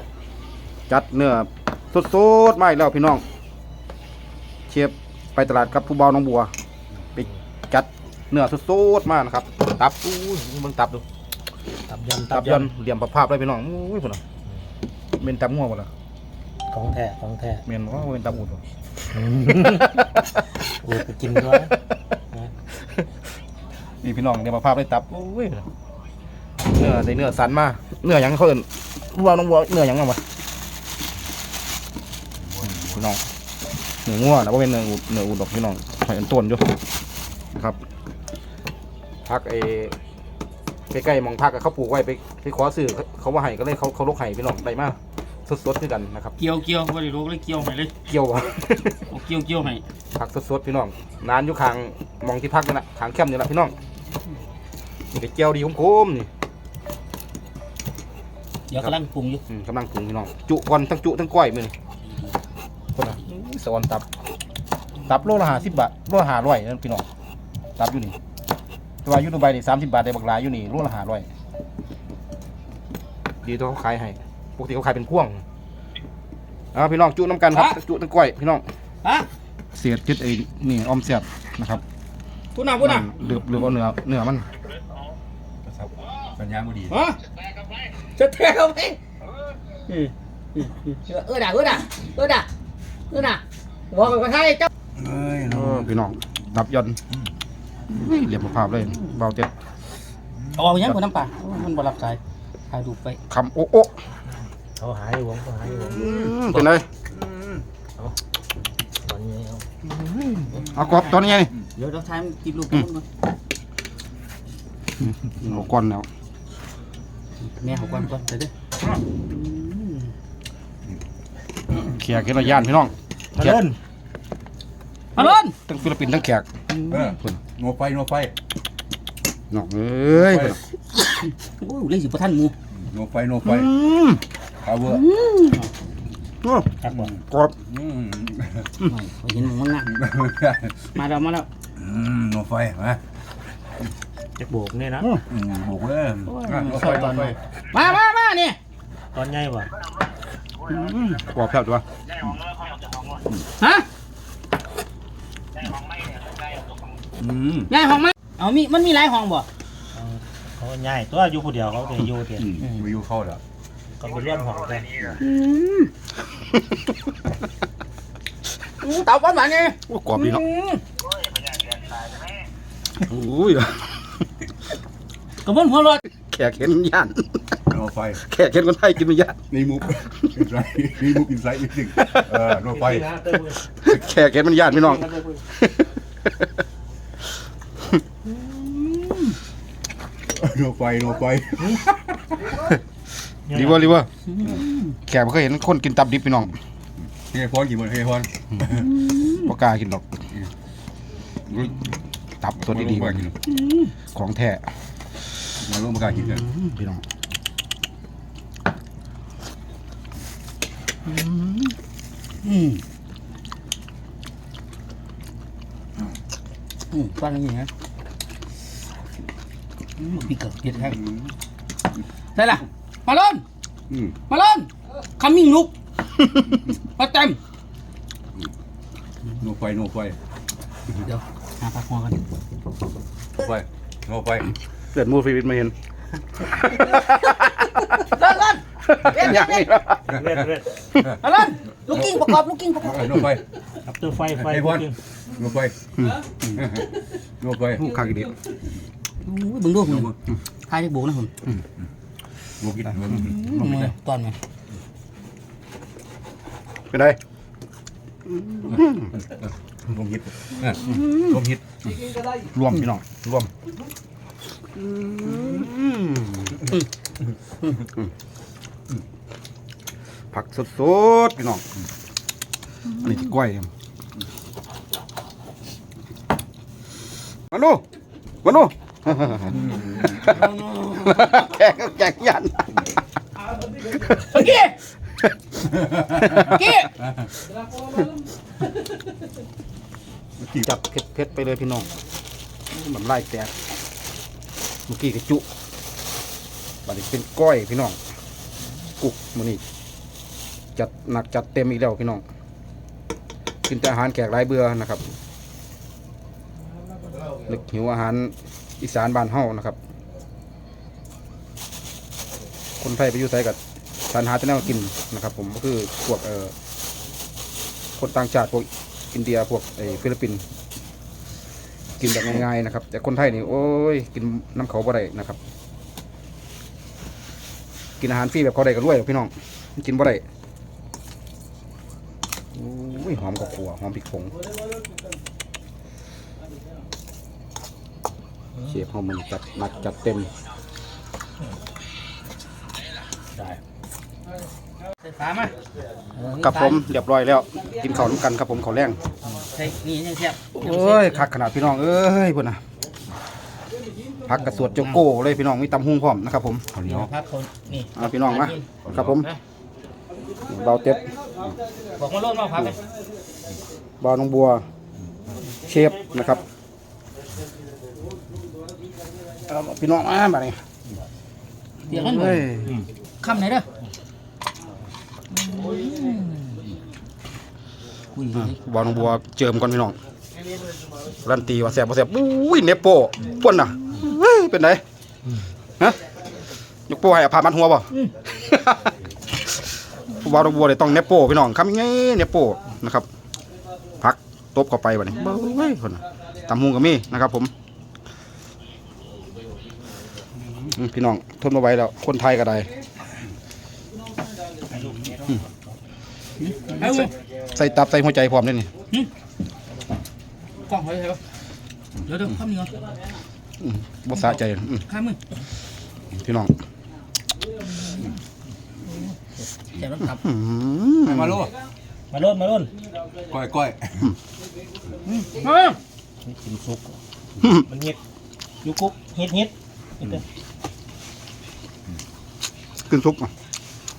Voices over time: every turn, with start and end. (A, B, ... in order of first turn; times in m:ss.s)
0:00.9-0:03.2 A
0:04.7-0:06.5 A
0:07.2-0:11.0 A
0:11.9-0:12.7 B
0:12.3-0:14.2 A
0:15.1-0:15.9 A
0:16.7-0:17.6 B
0:17.7-0:18.6 A
0:19.2-0:19.8 B
0:20.8-0:21.7 B
0:24.0-0:25.7 A
0:26.6-0:30.2 A
0:32.8-0:33.2 A
0:34.0-0:36.8 A
0:37.5-0:37.8 A
0:39.2-0:40.0 A
0:40.9-0:46.4 A
0:46.4-0:47.9 C
0:48.1-0:49.1 A
0:49.1-0:49.8 C
0:50.2-0:53.7 A
0:55.1-0:56.3 A
0:58.7-0:59.4 C
0:59.5-1:01.7 A
1:03.0-1:04.0 A
1:05.0-1:07.1 A
1:07.8-1:08.2 A
1:09.0-1:11.3 A
1:13.4-1:15.4 A
1:16.7-1:18.6 A
1:19.7-1:21.8 A
1:22.6-1:23.0 C
1:22.8-1:24.5 A
1:26.3-1:27.0 D
1:26.9-1:27.2 C
1:28.2-1:29.0 C
1:29.9-1:32.5 C
1:33.1-1:34.7 C
1:35.0-1:35.9 D
1:35.5-1:37.0 A
1:37.9-1:39.5 A
1:40.6-1:42.2 C
1:42.7-1:43.2 C
1:43.3-1:43.9 A
1:44.8-1:45.9 C
1:45.0-1:46.0 B
1:45.9-1:46.8 A
1:49.1-1:49.6 B
1:50.6-1:51.5 A
1:51.0-1:53.0 C
1:55.3-1:56.1 A
1:57.5-1:58.5 C
2:01.8-2:03.6 A
2:03.4-2:03.8 B
2:05.2-2:05.5 C
2:05.2-2:06.5 A
2:06.9-2:08.3 D
2:09.5-2:10.6 A
2:10.2-2:10.6 D
2:11.0-2:12.6 C
2:12.8-2:13.7 D
2:13.5-2:14.2 A
2:14.6-2:15.0 D
2:15.0-2:15.7 C
2:16.4-2:16.8 A
2:16.9-2:17.2 D
2:17.3-2:17.5 A
2:17.7-2:18.7 D
2:18.9-2:19.9 C
2:19.9-2:20.9 D
2:21.0-2:21.5 C
2:21.8-2:23.0 D
2:24.4-2:25.1 B
2:25.3-2:27.4 D
2:26.3-2:28.6 C
2:29.2-2:29.7 C
2:29.2-2:29.6 B
2:30.6-2:31.8 A
2:33.6-2:33.9 C
2:37.2-2:37.7 D
2:37.7-2:42.4 C
2:41.9-2:42.6 B
2:42.4-2:43.4 D
2:44.0-2:44.9 C
2:44.0-2:45.1 B
2:45.2-2:45.9 A
2:48.8-2:50.8 C
2:49.9-2:50.4 A
2:53.0-2:54.0 A
2:55.4-2:56.0 C
2:56.3-2:57.5 A
2:57.7-2:58.2 D
2:58.2-2:59.4 A
2:59.5-3:03.2 D
3:03.7-3:05.9 A
3:10.3-3:12.6 D
3:13.5-3:14.1 A
3:15.0-3:16.5 A
3:17.3-3:18.9 D
3:19.2-3:20.0 A
3:22.4-3:23.3 A
3:22.7-3:23.4 D
3:24.1-3:24.7 A
3:25.6-3:26.5 D
3:26.3-3:27.0 A
3:36.9-3:37.7 C
3:40.0-3:41.0 C
3:42.4-3:43.4 C
3:44.3-3:45.7 C
3:47.0-3:47.4 C
3:49.4-3:50.2 D
3:51.0-3:52.2 C
3:53.4-3:54.5 D
3:54.9-3:55.7 A
3:56.4-3:57.9 A
3:58.1-3:58.6 C
3:58.9-4:00.2 A
3:59.1-3:59.7 C
4:00.1-4:00.4 D
4:00.2-4:00.6 C
4:01.2-4:03.0 C
4:02.9-4:03.4 D
4:04.0-4:04.9 C
4:04.4-4:05.8 D
4:06.6-4:06.9 D
4:07.4-4:07.8 D
4:07.8-4:08.3 A
4:09.2-4:10.1 C
4:09.9-4:10.1 D
4:10.7-4:11.3 C
4:12.6-4:13.8 D
4:13.5-4:13.8 A
4:13.6-4:14.4 C
4:16.9-4:17.2 A
4:18.6-4:18.9 A
4:19.9-4:21.6 D
4:22.3-4:23.5 A
4:24.9-4:26.1 A
4:30.3-4:31.6 A
4:32.9-4:33.7 A
4:37.5-4:37.8 A
4:38.4-4:42.7 A
4:39.7-4:40.0 D
4:43.8-4:44.3 A
4:44.3-4:44.7 C
4:46.6-4:46.9 C
4:50.5-4:51.9 A
4:52.7-4:53.5 A
4:54.9-4:55.4 A
4:56.8-4:58.0 A
4:59.0-4:59.6 A
5:00.8-5:02.2 A
5:03.7-5:05.0 A
5:07.4-5:09.8 A
5:12.8-5:13.6 A
5:14.1-5:16.5 A
5:18.0-5:20.4 A
5:22.0-5:25.4 A
5:28.0-5:30.2 A
5:32.5-5:34.4 A
5:38.6-5:40.3 A
5:45.0-5:45.5 C
5:46.2-5:46.8 C
5:46.4-5:49.0 A
5:49.5-5:51.2 C
5:50.6-5:52.6 A
5:54.2-5:56.7 A
5:56.7-5:57.1 D
5:56.9-5:59.4 C
5:58.0-5:59.3 A
6:00.5-6:01.2 A
6:02.0-6:02.8 C
6:04.0-6:04.7 A
6:05.6-6:06.4 A
6:09.5-6:10.6 A
6:11.9-6:12.5 C
6:11.9-6:12.8 A
6:13.2-6:13.7 C
6:15.4-6:16.5 C
6:18.2-6:19.0 C
6:18.4-6:20.0 A
6:21.2-6:24.8 A
6:26.9-6:27.9 A
6:28.4-6:28.8 A
6:30.1-6:33.1 A
6:34.0-6:37.5 A
6:40.7-6:42.7 A
6:44.7-6:45.4 B
6:46.4-6:47.0 C
6:46.8-6:48.7 A
6:50.7-6:51.2 C
6:52.1-6:52.8 C
6:53.6-6:54.8 A
6:54.9-6:55.2 C
6:56.1-6:56.5 A
6:59.8-7:00.2 C
7:00.2-7:01.4 A
7:01.0-7:01.5 D
7:02.1-7:02.7 B
7:03.2-7:04.2 D
7:05.2-7:05.8 C
7:05.4-7:05.6 B
7:06.2-7:07.0 B
7:07.6-7:08.0 B
7:08.6-7:10.2 B
7:12.9-7:13.3 A